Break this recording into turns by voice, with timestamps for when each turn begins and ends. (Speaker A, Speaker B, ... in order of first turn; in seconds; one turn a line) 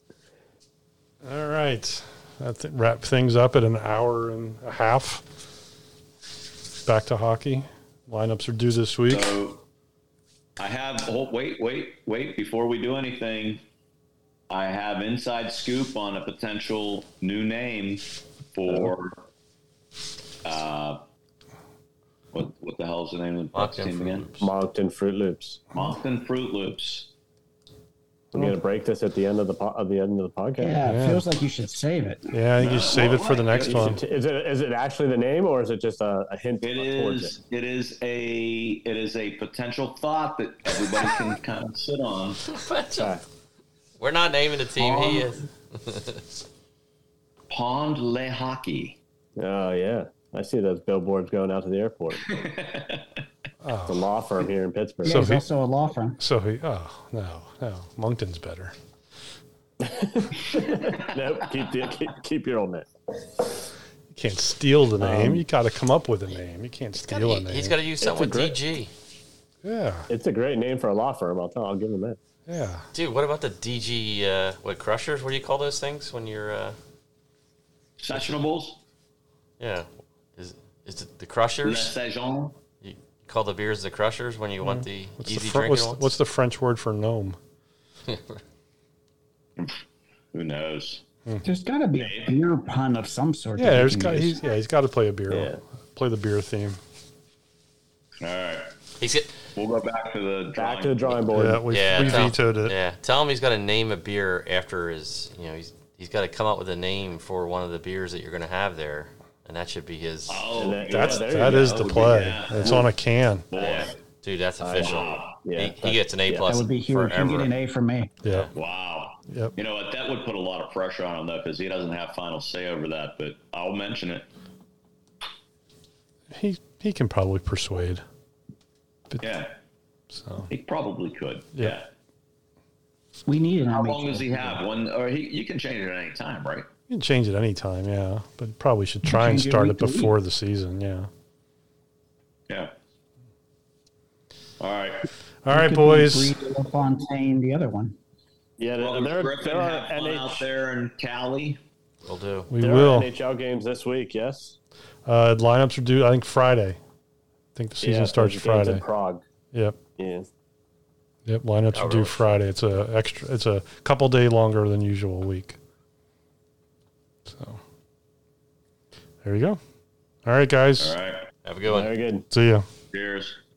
Speaker A: 1.2-5.4
Speaker A: 6.8-9.3
Speaker B: 9.1-9.6
Speaker B: 10.6-13.6
Speaker B: 14.5-19.2
Speaker B: 20.4-21.0
Speaker B: 22.3-24.3
Speaker C: 23.6-24.5
Speaker D: 24.4-25.6
Speaker B: 25.7-27.1
Speaker D: 28.3-30.8
Speaker E: 30.6-32.3
Speaker A: 30.8-31.2
Speaker A: 32.3-34.0
Speaker B: 32.6-34.0
Speaker D: 33.6-37.3
Speaker B: 36.6-42.4
Speaker C: 42.5-43.2
Speaker D: 42.9-43.2
Speaker C: 44.0-46.2
Speaker B: 44.8-45.4
Speaker B: 47.5-49.0
Speaker D: 49.4-52.3
Speaker B: 52.2-53.2
Speaker A: 53.6-54.1
Speaker D: 53.9-55.3
Speaker E: 55.0-56.2
Speaker A: 55.0-55.4
Speaker A: 56.2-58.7
Speaker D: 59.8-62.9
Speaker A: 64.1-67.8
Speaker D: 65.0-65.5
Speaker C: 67.1-68.9
Speaker D: 68.0-68.6
Speaker A: 69.6-70.1
Speaker D: 70.1-72.2
Speaker A: 72.5-72.8
Speaker C: 72.9-76.8
Speaker B: 78.0-78.8
Speaker C: 79.6-81.9
Speaker B: 81.6-82.6
Speaker C: 82.8-86.1
Speaker A: 84.6-87.4
Speaker C: 88.1-88.4
Speaker B: 89.6-91.0
Speaker E: 91.4-94.4
Speaker B: 91.9-92.3
Speaker A: 93.5-96.8
Speaker D: 95.3-95.6
Speaker B: 98.2-98.7
Speaker C: 99.0-99.4
Speaker B: 99.5-101.2
Speaker D: 100.5-101.8
Speaker A: 101.3-102.7
Speaker C: 101.7-110.5
Speaker B: 110.3-112.9
Speaker D: 110.5-112.8
Speaker A: 110.9-113.5
Speaker B: 113.5-114.0
Speaker C: 113.5-117.5
Speaker D: 114.6-116.6
Speaker B: 114.8-115.4
Speaker E: 116.5-118.1
Speaker A: 118.2-118.5
Speaker C: 118.2-118.5
Speaker B: 118.5-124.3
Speaker A: 126.3-128.0
Speaker B: 129.2-129.6
Speaker A: 130.1-130.5
Speaker B: 130.5-131.9
Speaker E: 133.3-134.6
Speaker B: 133.7-136.7
Speaker A: 136.9-141.1
Speaker E: 139.1-140.1
Speaker B: 144.6-145.1
Speaker A: 145.4-146.3
Speaker E: 145.5-148.0
Speaker D: 148.6-150.5
Speaker B: 148.8-151.6
Speaker C: 152.1-152.5
Speaker A: 152.5-153.1
Speaker D: 152.6-154.6
Speaker A: 155.1-156.8
Speaker A: 157.6-158.8
Speaker D: 157.8-159.2
Speaker D: 160.0-160.3
Speaker A: 161.3-165.6
Speaker C: 161.7-162.2
Speaker A: 167.3-167.6
Speaker A: 169.2-169.6
Speaker A: 170.2-170.9
Speaker B: 170.8-171.3
Speaker C: 171.4-171.9
Speaker D: 171.6-172.3
Speaker A: 172.3-172.7
Speaker B: 172.9-173.4